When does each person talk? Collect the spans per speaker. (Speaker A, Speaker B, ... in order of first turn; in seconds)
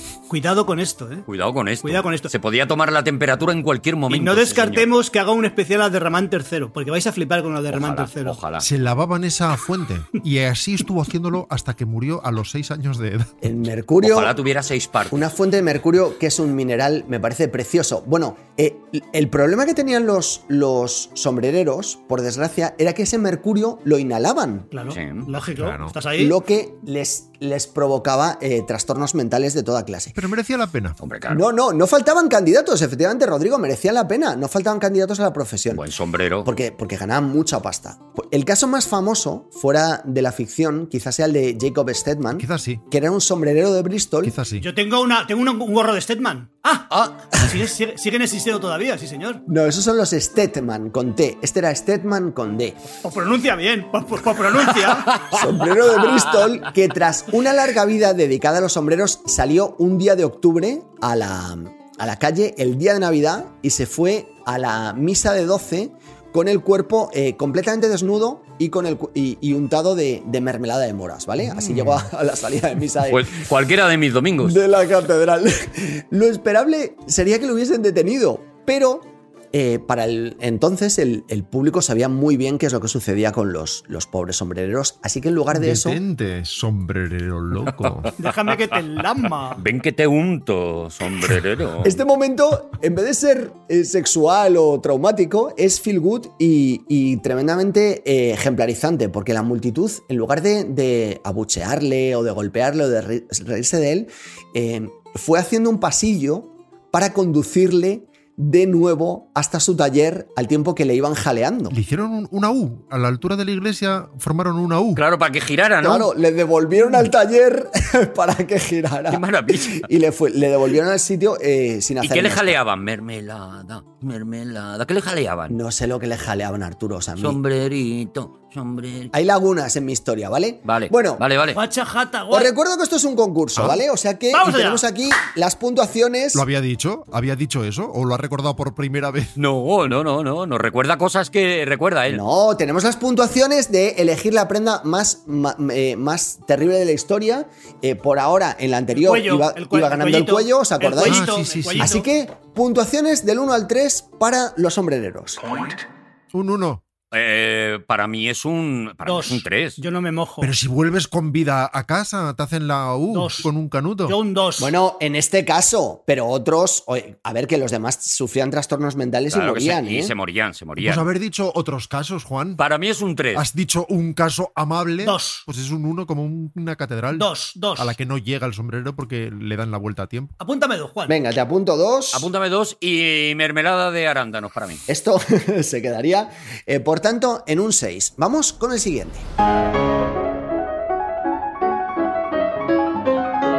Speaker A: 0.3-1.3, 1.8-2.3, 4.1-8.4, 24.7-26.4, 44.6-49.4, 53.0-55.2, 88.2-89.6, 131.5-132.5, 134.3-134.8, 148.9-152.1, 159.0-160.5, 163.1-163.5, 164.1-164.7, 175.0-175.4, 177.1-177.9, 180.4-181.2
Speaker B: 1.3-4.9, 7.7-8.6, 14.0-15.3, 24.9-25.3, 31.0-31.4, 35.7-36.5, 73.1-74.6, 89.5-92.0, 114.9-116.1, 119.1-119.8, 122.0-125.5, 127.2-129.1, 130.6-131.6, 139.4-142.2, 157.1-159.8, 169.3-171.1, 172.6-173.4, 182.1-184.8
Speaker C: 8.6-13.3, 25.6-26.0, 30.1-31.0, 42.3-42.8, 44.2-44.6, 71.4-72.1, 85.5-88.1, 111.7-115.0, 136.3-139.3, 151.0-152.0, 156.3-156.8, 160.4-164.2, 170.8-172.6, 173.3-180.3
Speaker D: 13.4-14.3, 15.1-24.7, 26.2-30.1, 31.3-35.8, 36.4-44.4, 49.5-52.8, 55.2-73.3, 74.4-86.0, 91.8-111.7, 115.8-122.6, 125.5-127.4, 129.1-131.2, 132.3-136.4, 142.1-155.5, 164.6-170.1, 181.1-182.3, 184.9-189.2